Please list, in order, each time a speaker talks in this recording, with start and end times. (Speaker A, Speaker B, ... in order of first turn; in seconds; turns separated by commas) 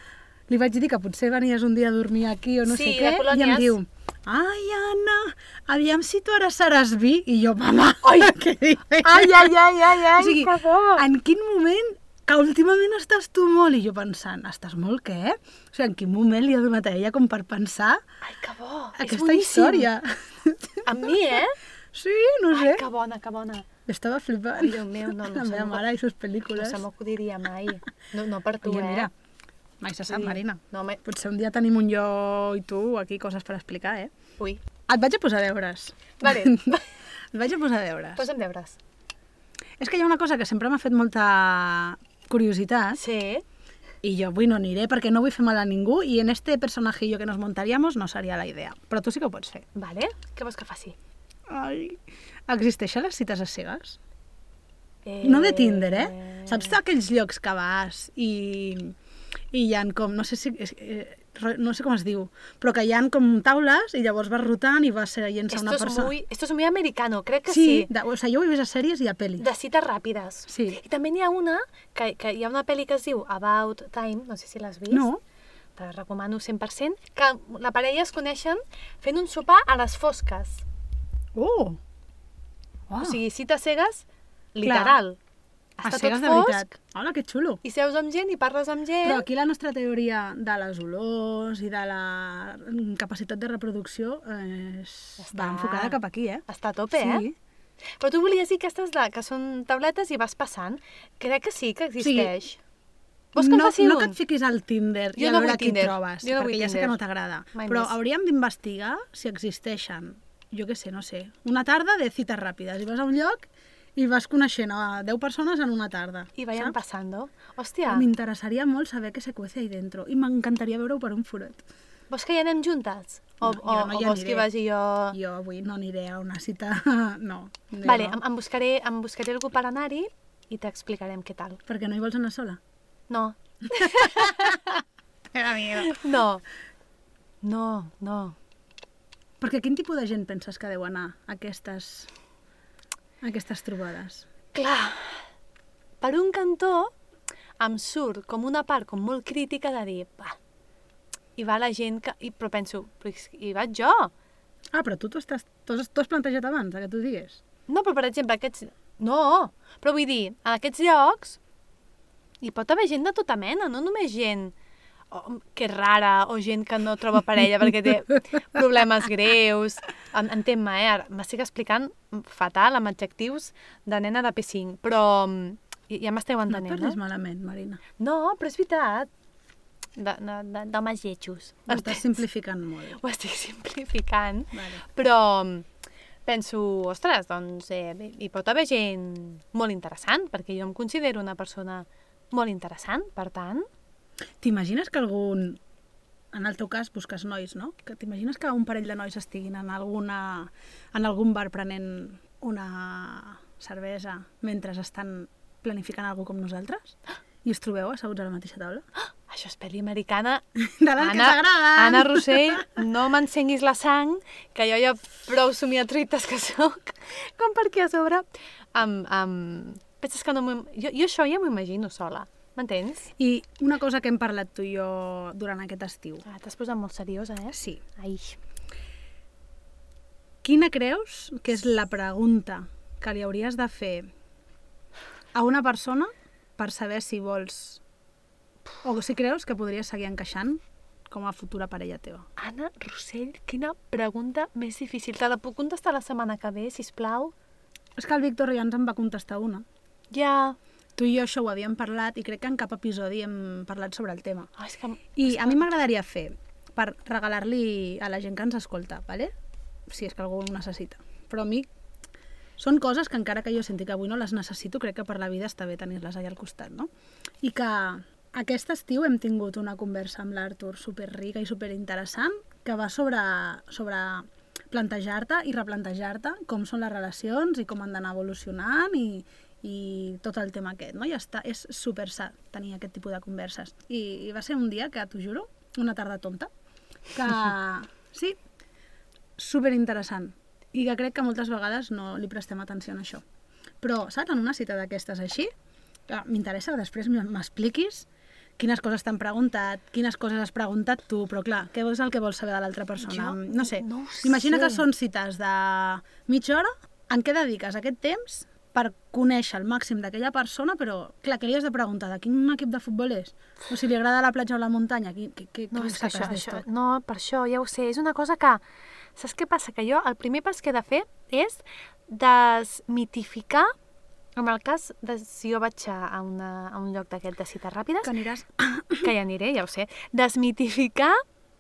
Speaker A: 0.5-18.0, Speaker B: 2.7-3.8, Speaker B: 8.0-8.4, Speaker B: 9.0-11.1, Speaker B: 18.2-19.9, Speaker A: 19.0-20.9, Speaker B: 20.9-21.6, Speaker A: 21.9-22.8, Speaker B: 22.5-23.7, Speaker A: 23.9-26.8, Speaker B: 24.5-25.8, Speaker B: 26.6-29.1, Speaker A: 28.6-29.1, Speaker A: 29.8-34.1, Speaker B: 30.1-31.0, Speaker A: 34.9-36.8, Speaker B: 36.2-36.8, Speaker A: 37.3-38.3, Speaker B: 38.2-38.8, Speaker A: 39.8-43.0, Speaker B: 43.0-43.4, Speaker A: 44.0-49.6, Speaker B: 49.8-51.0, Speaker A: 51.5-54.0, Speaker B: 55.0-56.8, Speaker A: 55.2-59.0, Speaker A: 59.5-66.1, Speaker B: 65.5-67.9, Speaker A: 67.5-69.5, Speaker B: 69.4-75.1, Speaker A: 70.5-70.8, Speaker A: 74.9-75.2, Speaker B: 75.8-80.6, Speaker A: 81.3-81.8, Speaker A: 82.9-83.2, Speaker B: 83.0-85.2, Speaker A: 84.6-85.0, Speaker B: 85.8-86.7, Speaker A: 85.8-87.6, Speaker B: 87.6-89.3, Speaker A: 89.0-97.4, Speaker B: 95.2-97.2, Speaker B: 98.0-102.6, Speaker A: 102.0-102.3, Speaker B: 103.3-104.2, Speaker A: 103.4-116.8, Speaker B: 105.2-107.0, Speaker B: 107.5-108.0, Speaker B: 116.4-118.1, Speaker A: 117.9-121.7, Speaker B: 122.1-125.2, Speaker A: 123.4-124.5, Speaker A: 125.1-128.2, Speaker B: 127.8-131.6, Speaker A: 131.7-132.6, Speaker B: 133.1-134.7, Speaker A: 133.7-134.8, Speaker A: 135.3-136.0, Speaker B: 135.8-136.4, Speaker B: 137.4-138.4, Speaker A: 139.4-142.1, Speaker A: 143.2-144.3, Speaker B: 144.5-145.2, Speaker B: 146.0-146.9, Speaker B: 147.6-150.4, Speaker B: 151.4-154.1, Speaker A: 154.7-157.4, Speaker B: 157.7-161.4, Speaker B: 162.4-164.5, Speaker B: 165.1-177.0, Speaker A: 176.5-177.8, Speaker B: 178.0-179.1, Speaker B: 180.0-182.1, Speaker A: 181.7-183.0, Speaker B: 182.9-185.7, Speaker A: 184.5-184.8, Speaker B: 186.3-193.7, Speaker A: 194.4-195.6, Speaker A: 196.3-208.8, Speaker B: 209.0-210.4, Speaker A: 210.6-212.8, Speaker B: 211.0-218.2, Speaker B: 218.8-223.1, Speaker A: 223.2-226.2, Speaker B: 226.2-228.4, Speaker A: 227.5-227.8, Speaker A: 230.4-234.1, Speaker A: 235.3-237.8, Speaker A: 238.8-242.3, Speaker B: 242.4-247.3, Speaker A: 248.0-249.7, Speaker B: 250.1-250.6, Speaker A: 251.0-254.5, Speaker B: 254.6-255.6, Speaker A: 255.2-259.3, Speaker A: 259.9-261.7, Speaker A: 262.6-266.9, Speaker A: 267.4-286.5, Speaker A: 287.1-288.4, Speaker A: 289.4-293.2, Speaker A: 293.8-295.5, Speaker A: 296.1-298.1, Speaker A: 298.6-316.6, Speaker B: 303.0-304.9, Speaker B: 315.7-318.6, Speaker B: 319.2-323.7, Speaker B: 324.4-328.2, Speaker A: 328.0-329.1, Speaker B: 329.0-331.2